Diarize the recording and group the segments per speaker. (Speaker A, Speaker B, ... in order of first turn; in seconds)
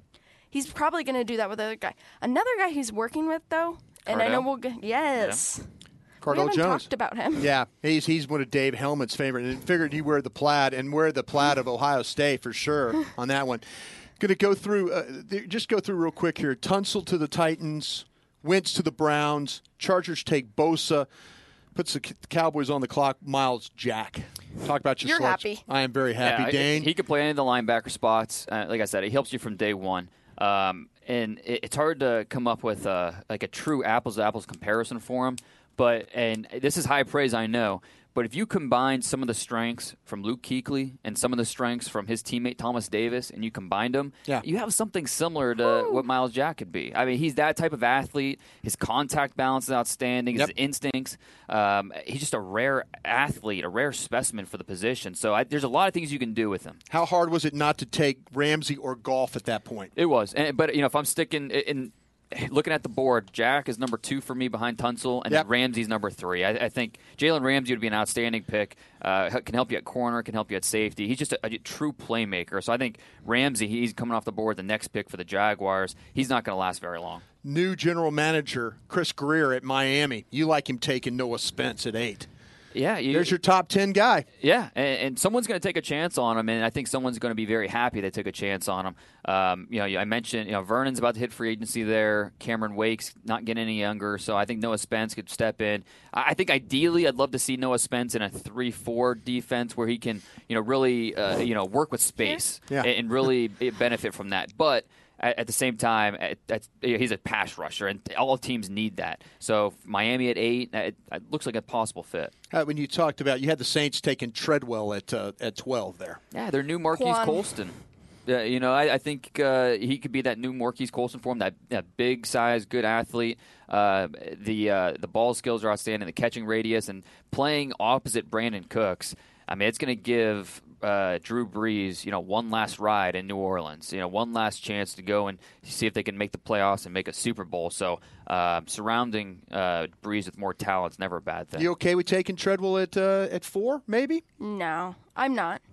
Speaker A: 0.5-5.7, 6.2-7.5, 25.0-25.6, 45.6-46.0, 116.9-117.5, 144.4-145.6
Speaker B: 4.1-4.5, 26.2-56.8, 60.0-77.2, 82.7-83.3, 84.4-112.3, 116.3-117.8, 118.3-141.7
Speaker C: 6.2-13.6, 14.2-21.1, 21.7-26.9, 56.9-59.9, 77.4-82.3, 83.1-84.2, 112.5-116.2, 141.6-144.2